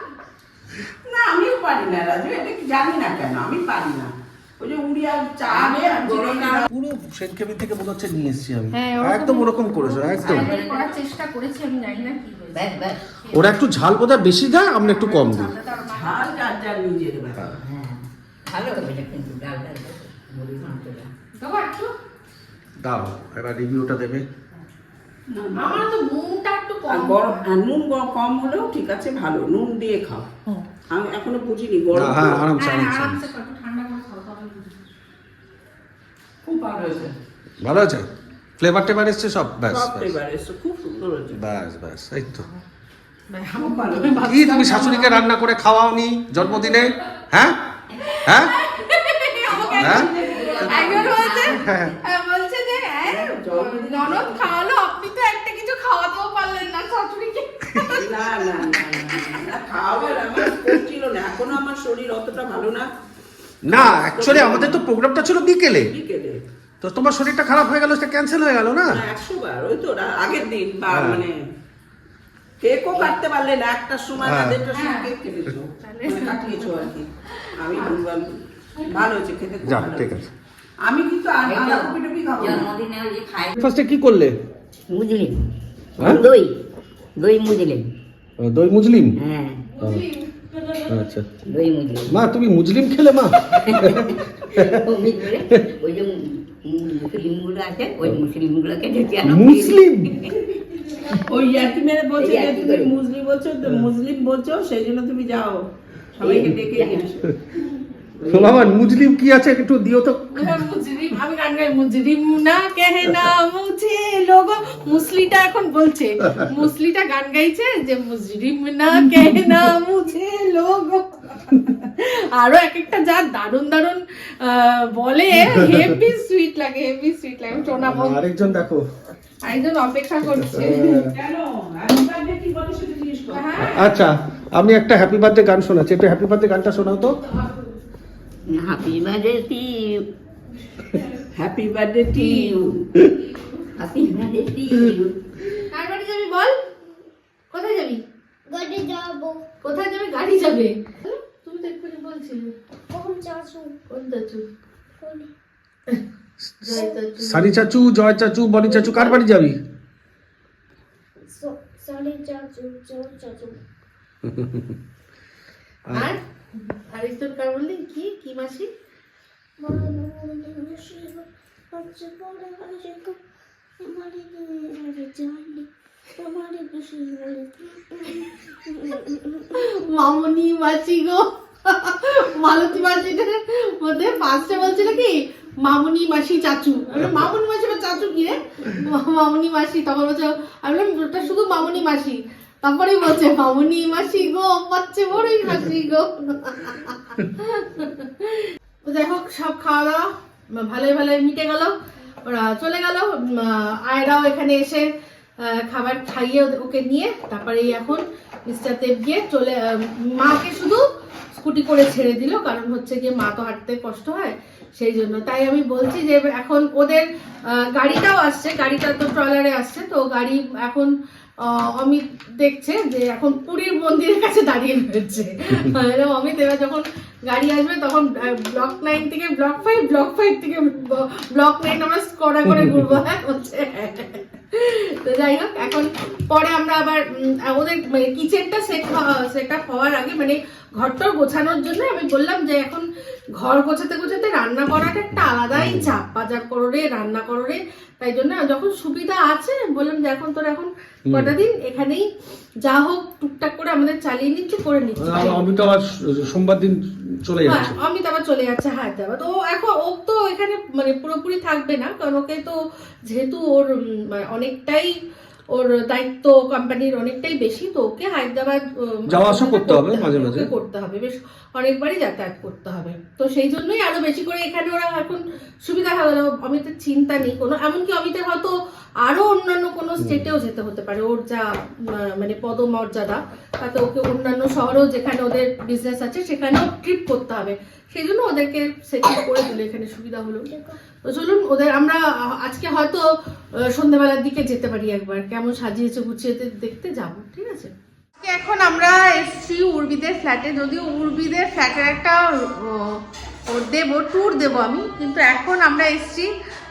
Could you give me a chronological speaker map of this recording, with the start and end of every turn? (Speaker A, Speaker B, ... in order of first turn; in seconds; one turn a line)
Speaker A: 1.1-6.7
Speaker B: 6.5-10.5
Speaker C: 8.7-13.6
Speaker D: 10.2-10.9
Speaker D: 12.5-13.0
Speaker B: 13.3-15.5
Speaker C: 14.6-16.5
Speaker A: 15.9-17.5
Speaker D: 17.6-21.1
Speaker C: 21.4-21.9
Speaker B: 22.8-24.2
Speaker A: 25.3-25.9
Speaker C: 25.6-27.4
Speaker A: 26.9-30.3
Speaker A: 30.9-32.5
Speaker B: 31.9-33.2
Speaker C: 32.6-34.8
Speaker A: 36.5-37.1
Speaker B: 37.6-38.1
Speaker B: 38.6-40.1
Speaker A: 39.7-41.4
Speaker B: 41.3-42.5
Speaker C: 43.3-45.2
Speaker A: 43.5-45.0
Speaker B: 44.2-47.6
Speaker C: 48.1-58.3
Speaker B: 48.2-48.5
Speaker D: 49.5-51.9
Speaker B: 49.8-50.1
Speaker A: 49.8-51.1
Speaker B: 50.7-51.9
Speaker A: 53.0-54.5
Speaker A: 57.9-62.9
Speaker B: 63.6-65.9
Speaker A: 63.6-64.8
Speaker A: 65.9-66.4
Speaker B: 66.8-69.0
Speaker A: 68.9-71.4
Speaker B: 70.9-71.2
Speaker A: 72.6-80.1
Speaker B: 74.2-74.6
Speaker C: 75.8-76.9
Speaker B: 79.6-80.3
Speaker A: 80.8-82.7
Speaker D: 81.4-83.5
Speaker B: 83.5-84.3
Speaker D: 84.9-85.4
Speaker D: 86.0-86.5
Speaker D: 87.2-87.8
Speaker B: 88.4-89.2
Speaker D: 89.2-89.6
Speaker C: 89.7-91.0
Speaker B: 90.9-91.3
Speaker D: 91.5-92.1
Speaker B: 92.1-94.8
Speaker D: 93.6-100.3
Speaker B: 99.2-100.2
Speaker A: 101.1-105.6
Speaker D: 102.2-103.0
Speaker A: 106.2-107.3
Speaker D: 106.2-107.1
Speaker A: 108.2-108.7
Speaker B: 108.3-110.6
Speaker C: 110.3-128.2
Speaker B: 125.5-125.9
Speaker B: 127.7-128.8
Speaker C: 129.4-130.8
Speaker B: 130.4-131.1
Speaker A: 131.1-133.6
Speaker C: 133.3-133.9
Speaker B: 133.6-137.2
Speaker D: 138.5-140.0
Speaker A: 141.3-142.9
Speaker D: 143.8-145.1
Speaker C: 145.7-146.6
Speaker C: 147.5-148.0
Speaker E: 148.5-149.4
Speaker C: 149.6-152.5
Speaker E: 152.9-153.8
Speaker C: 153.9-154.4
Speaker E: 155.0-155.3
Speaker B: 156.4-159.6
Speaker C: 156.6-157.7
Speaker E: 161.2-163.6
Speaker B: 164.2-164.8
Speaker C: 165.9-166.2
Speaker C: 166.9-168.7
Speaker E: 169.6-173.2
Speaker E: 173.8-179.5
Speaker C: 179.5-204.9
Speaker C: 205.4-220.9
Speaker C: 221.4-242.8
Speaker B: 232.4-232.9
Speaker C: 243.4-252.1
Speaker B: 245.2-245.9
Speaker B: 251.1-251.3
Speaker C: 252.6-255.4
Speaker B: 255.0-257.8
Speaker C: 257.4-264.9
Speaker C: 265.5-290.5
Speaker B: 269.1-270.5
Speaker B: 280.0-280.3
Speaker E: 290.5-290.8
Speaker C: 291.0-293.0
Speaker C: 293.6-302.9
Speaker C: 303.5-306.3